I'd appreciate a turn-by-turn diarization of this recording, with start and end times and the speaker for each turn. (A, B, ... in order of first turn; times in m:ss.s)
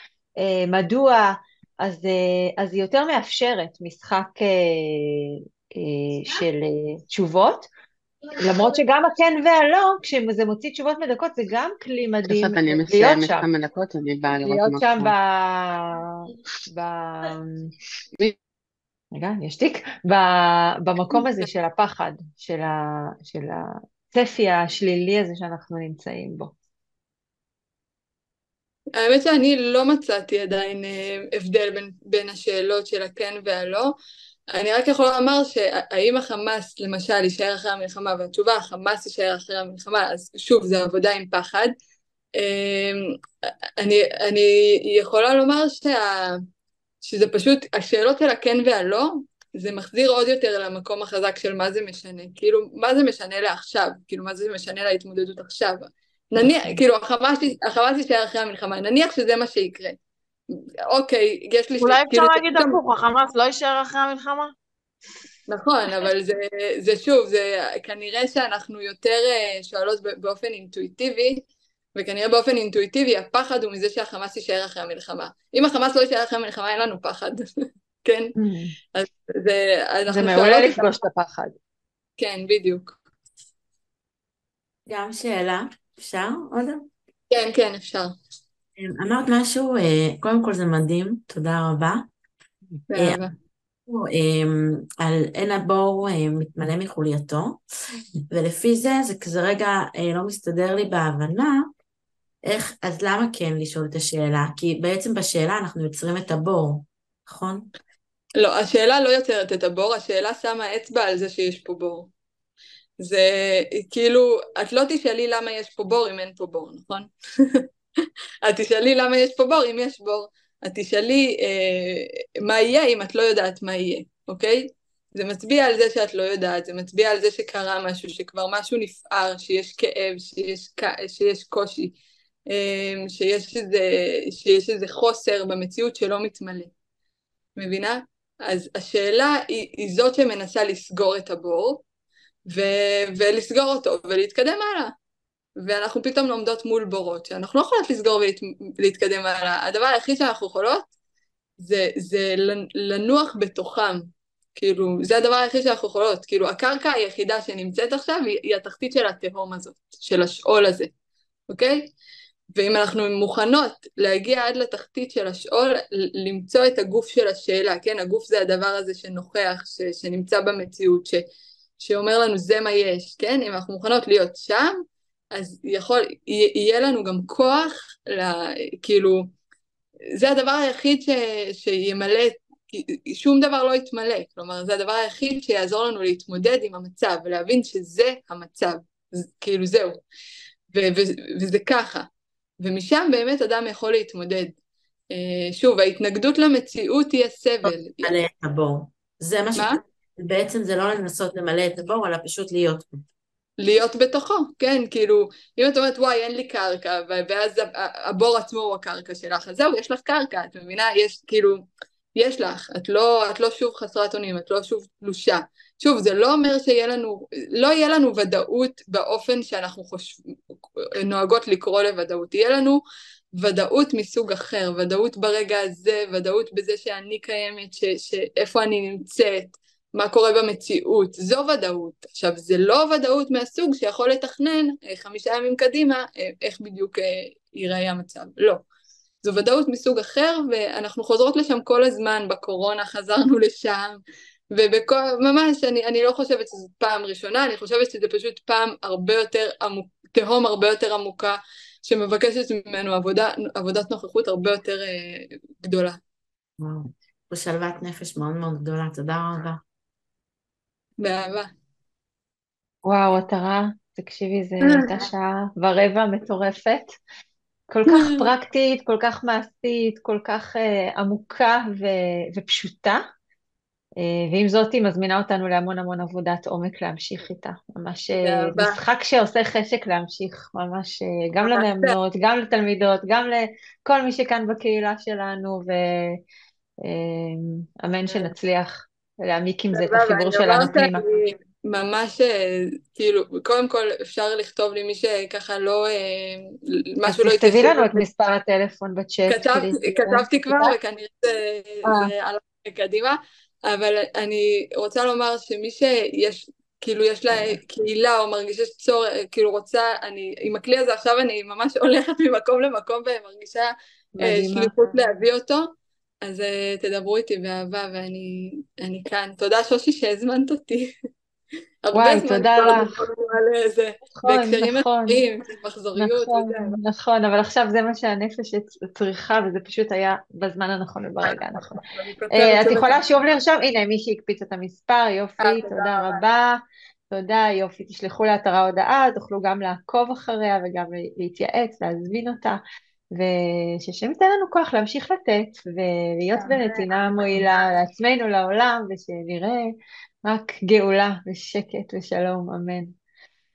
0:00.4-0:07.7 A
0:08.4-0:13.5 A
0:12.2-0:15.1 B
0:14.4-0:17.7 A
0:19.1-0:26.5 A
0:29.0-0:33.9 C
0:34.5-0:41.7 C
0:42.4-0:43.2 C
0:43.8-0:46.4 C
0:47.0-1:00.0 C
1:00.6-1:02.8 C
1:01.8-1:04.5 D
1:05.5-1:11.4 C
1:12.0-1:17.4 C
1:18.0-1:18.4 C
1:18.4-1:18.8 A
1:19.0-1:21.0 C
1:20.1-1:21.6 A
1:22.2-1:23.0 C
1:24.9-1:26.9 E
1:27.3-1:28.2 C
1:28.8-1:32.1 E
1:32.9-1:33.3 C
1:33.9-1:37.6 E
1:38.3-1:41.7 E
1:42.4-1:47.7 E
1:48.4-1:52.1 C
1:53.0-1:57.6 C
1:58.4-2:12.0 C
2:12.5-2:16.7 C
2:17.6-2:21.8 C
2:22.5-2:24.9 C
2:25.6-2:30.9 C
2:31.6-2:40.9 C
2:41.5-2:41.9 C
2:42.6-2:51.2 C
2:51.8-2:54.8 C
2:55.3-2:59.3 C
3:00.2-3:10.0 C
3:10.7-3:12.1 C
3:12.6-3:14.6 C
3:15.1-3:18.1 C
3:17.7-3:23.0 E
3:23.6-3:31.6 C
3:32.2-3:42.8 C
3:43.3-3:58.6 C
3:59.2-4:16.0 C
4:16.6-4:19.6 E
4:21.0-4:21.5 C
4:22.8-4:27.0 A
4:24.6-4:25.0 C
4:27.7-4:33.0 A
4:27.9-4:28.3 C
4:34.0-4:46.2 A
4:38.2-4:38.8 C
4:41.4-4:42.0 C
4:46.8-4:51.0 A
4:49.7-4:58.0 C
4:57.1-5:00.7 A
4:59.3-5:15.7 C
5:01.9-5:02.1 A
5:07.3-5:07.6 A
5:14.2-5:14.9 A
5:16.2-5:20.9 C
5:21.8-5:26.8 C
5:21.9-5:22.9 A
5:24.2-5:25.2 A
5:26.0-5:31.8 A
5:31.2-5:33.1 C
5:32.3-5:36.6 A
5:35.4-5:36.2 C
5:37.1-5:49.7 A
5:46.4-5:47.4 C
5:50.2-5:52.9 A